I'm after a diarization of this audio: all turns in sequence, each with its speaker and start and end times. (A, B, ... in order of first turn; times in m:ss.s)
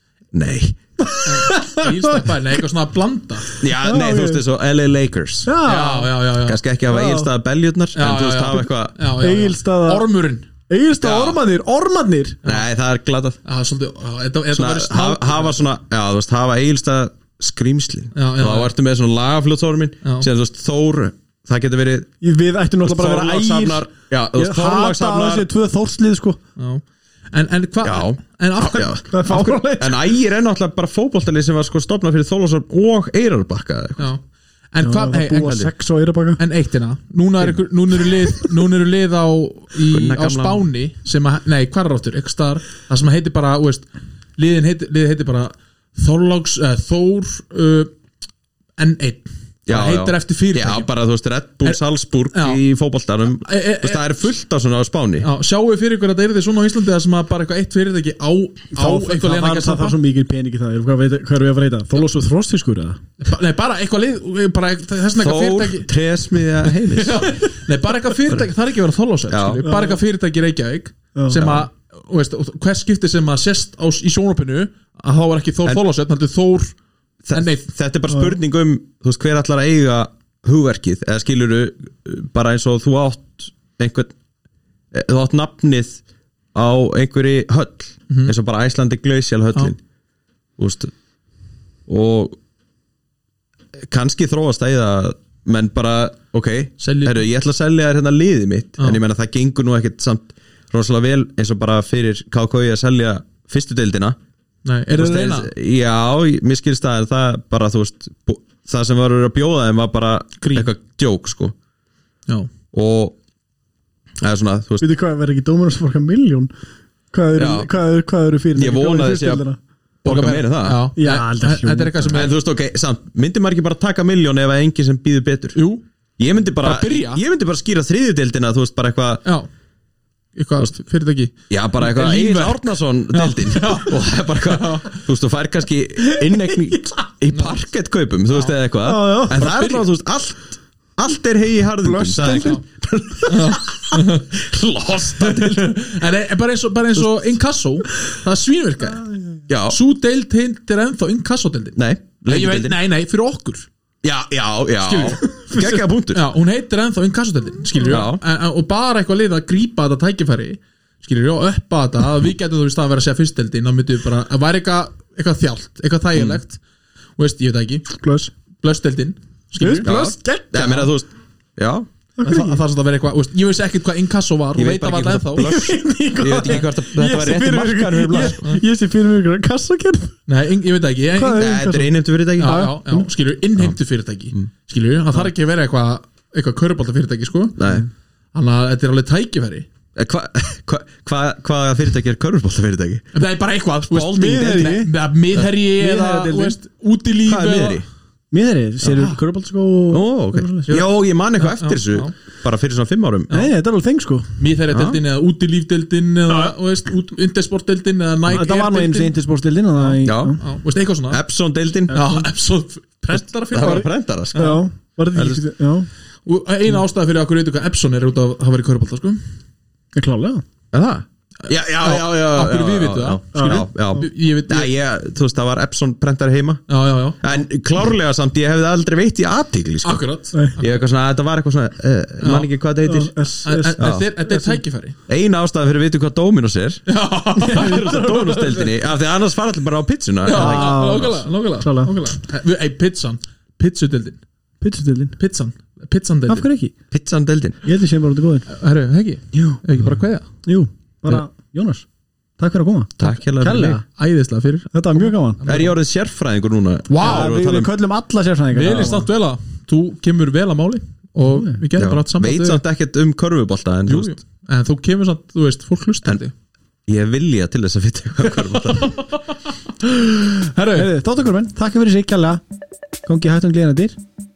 0:00.3-0:00.8 A
0:01.0-0:02.3 B
0:01.2-0:03.5 C
0:03.6-0:05.5 A
0:03.8-0:04.4 B
0:05.4-0:06.1 B
0:05.6-0:06.6 C
0:06.4-0:09.0 A
0:06.9-0:07.3 B
0:07.9-0:10.5 C
0:09.2-0:10.1 B
0:10.7-0:12.4 B
0:11.0-0:11.4 A
0:12.4-0:13.4 A
0:13.4-0:15.6 C
0:14.5-0:22.1 A
0:18.1-0:18.7 C
0:22.2-0:26.4 B
0:22.8-0:25.5 A
0:26.6-0:29.0 C
0:27.8-0:34.1 A
0:29.1-0:30.0 B
0:34.7-0:35.7 C
0:34.8-0:36.4 B
0:36.4-0:47.9 C
0:39.9-0:40.6 A
0:48.8-0:50.9 C
0:49.7-0:55.3 A
0:52.3-0:52.6 C
0:53.3-0:54.1 C
0:55.2-1:00.0 C
0:58.7-1:03.0 B
1:03.2-1:05.9 C
1:05.2-1:07.3 A
1:06.6-1:16.7 C
1:09.3-1:09.6 A
1:09.6-1:10.0 B
1:11.3-1:11.7 A
1:17.2-1:24.1 A
1:17.3-1:17.7 C
1:24.9-1:26.0 A
1:26.5-1:29.8 A
1:28.1-1:28.3 C
1:30.6-1:30.9 A
1:31.9-1:32.4 A
1:33.8-1:44.2 A
1:36.8-1:37.2 C
1:44.6-1:45.5 C
1:44.9-1:51.5 A
1:50.4-1:50.7 C
1:52.7-1:53.2 A
1:54.2-1:54.8 A
1:54.8-1:56.5 B
1:57.1-1:59.6 B
1:57.4-1:57.7 A
1:58.6-1:59.4 A
2:00.0-2:00.8 A
2:00.0-2:02.3 C
2:01.0-2:02.3 B
2:02.1-2:05.6 A
2:05.5-2:05.8 C
2:06.2-2:09.2 A
2:06.6-2:07.2 C
2:10.4-2:15.0 C
2:11.5-2:25.8 A
2:17.3-2:17.6 C
2:18.3-2:18.6 C
2:18.8-2:19.4 B
2:19.3-2:19.9 C
2:21.8-2:22.6 B
2:22.3-2:22.6 C
2:23.3-2:24.3 C
2:25.2-2:29.0 C
2:29.5-2:29.8 A
2:29.7-2:33.7 C
2:31.8-2:32.8 A
2:34.0-2:36.3 A
2:34.8-2:35.4 C
2:35.4-2:35.8 B
2:36.1-2:46.6 C
2:37.9-2:38.2 A
2:46.1-2:46.4 A
2:47.2-2:47.9 C
2:47.9-2:48.3 B
2:48.6-2:49.9 C
2:49.6-2:50.8 B
2:49.8-2:51.9 A
2:50.6-2:50.9 C
2:52.2-2:52.6 B
2:52.2-2:55.5 C
2:54.5-2:58.4 A
2:55.4-3:00.1 B
2:58.2-2:58.6 C
3:00.3-3:01.7 C
3:01.1-3:03.1 B
3:01.3-3:02.7 A
3:02.4-3:07.7 C
3:07.6-3:07.8 A
3:08.3-3:09.7 C
3:09.9-3:13.0 A
3:13.1-3:17.8 C
3:13.9-3:14.4 A
3:14.0-3:14.9 B
3:15.8-3:16.6 B
3:17.2-3:17.8 A
3:18.3-3:20.8 B
3:18.8-3:19.2 A
3:19.9-3:23.3 A
3:21.4-3:22.1 C
3:23.3-3:24.3 B
3:24.4-3:29.2 C
3:24.7-3:25.0 A
3:28.3-3:30.4 B
3:29.8-3:31.2 C
3:30.0-3:30.4 A
3:31.1-3:32.0 A
3:31.9-3:32.3 B
3:31.9-3:34.6 C
3:33.5-3:34.6 A
3:33.6-3:35.9 B
3:35.1-3:35.4 A
3:36.2-3:39.2 C
3:39.9-3:40.4 B
3:40.7-3:46.6 A
3:41.4-3:44.7 C
3:43.3-3:43.6 B
3:46.7-3:47.4 C
3:47.2-3:50.0 A
3:49.8-3:50.8 C
3:50.6-3:53.1 A
3:52.2-3:52.5 C
3:52.8-3:54.6 B
3:53.4-3:55.0 C
3:53.8-3:54.0 A
3:55.1-3:56.8 A
3:56.9-3:58.0 C
3:57.4-3:58.7 B
3:57.5-4:00.7 A
4:00.2-4:04.2 C
4:00.3-4:01.9 B
4:04.6-4:05.2 B
4:05.2-4:06.5 C
4:06.3-4:06.7 B
4:06.9-4:07.6 A
4:07.6-4:08.5 B
4:08.5-4:10.3 C
4:10.4-4:11.8 B
4:12.4-4:13.8 B
4:13.0-4:13.8 A
4:14.0-4:15.7 C
4:14.7-4:15.4 B
4:15.4-4:17.7 A
4:16.9-4:17.3 C
4:17.0-4:19.1 B
4:18.5-4:22.6 C
4:21.2-4:21.6 B
4:21.8-4:24.2 A
4:23.9-4:26.3 C
4:26.9-4:29.0 A
4:28.4-4:30.9 C
4:30.7-4:32.4 B
4:33.0-4:34.0 B